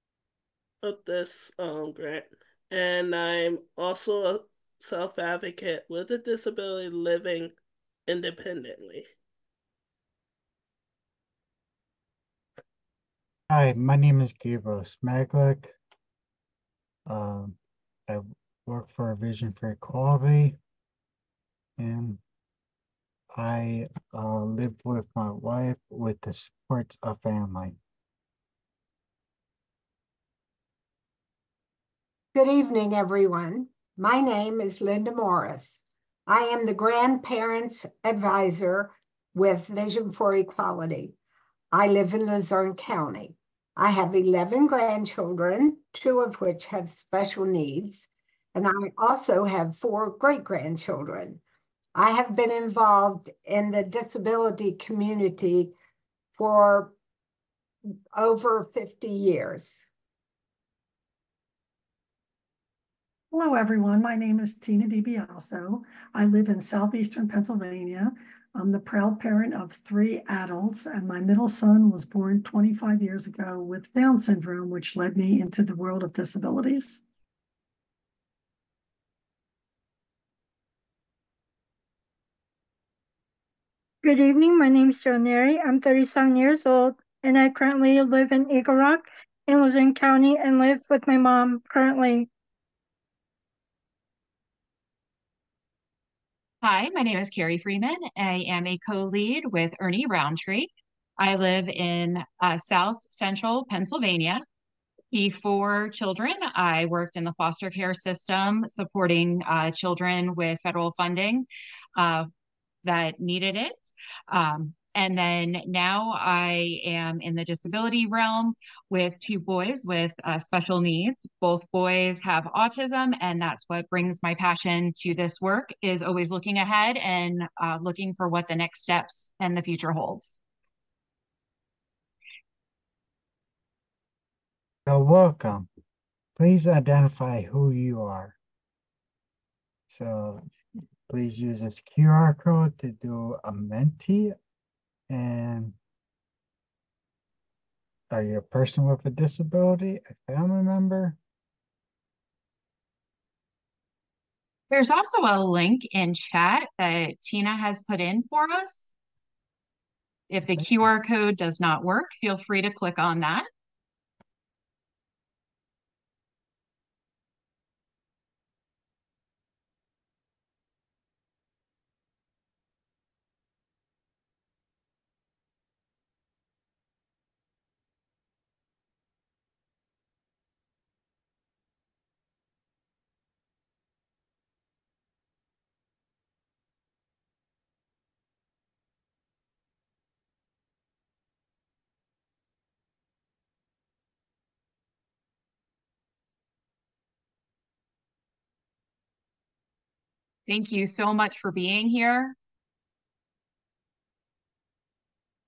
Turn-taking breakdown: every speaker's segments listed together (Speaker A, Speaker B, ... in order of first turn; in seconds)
Speaker A: 0.8-7.5, 8.1-9.1
Speaker B: 13.5-15.8, 17.1-17.6, 18.1-20.6, 21.8-22.2, 23.3-27.8, 134.9-135.7, 136.4-138.4, 139.9-140.5, 141.1-144.4, 145.1-145.8, 148.1-151.2
Speaker C: 32.3-41.1, 41.7-51.4, 52.0-55.7, 56.4-56.9, 58.1-59.8
Speaker D: 63.3-77.0
Speaker E: 84.0-92.3
Speaker F: 96.6-104.4, 105.1-112.3, 112.8-130.4, 154.7-158.9, 160.3-163.5, 200.5-202.4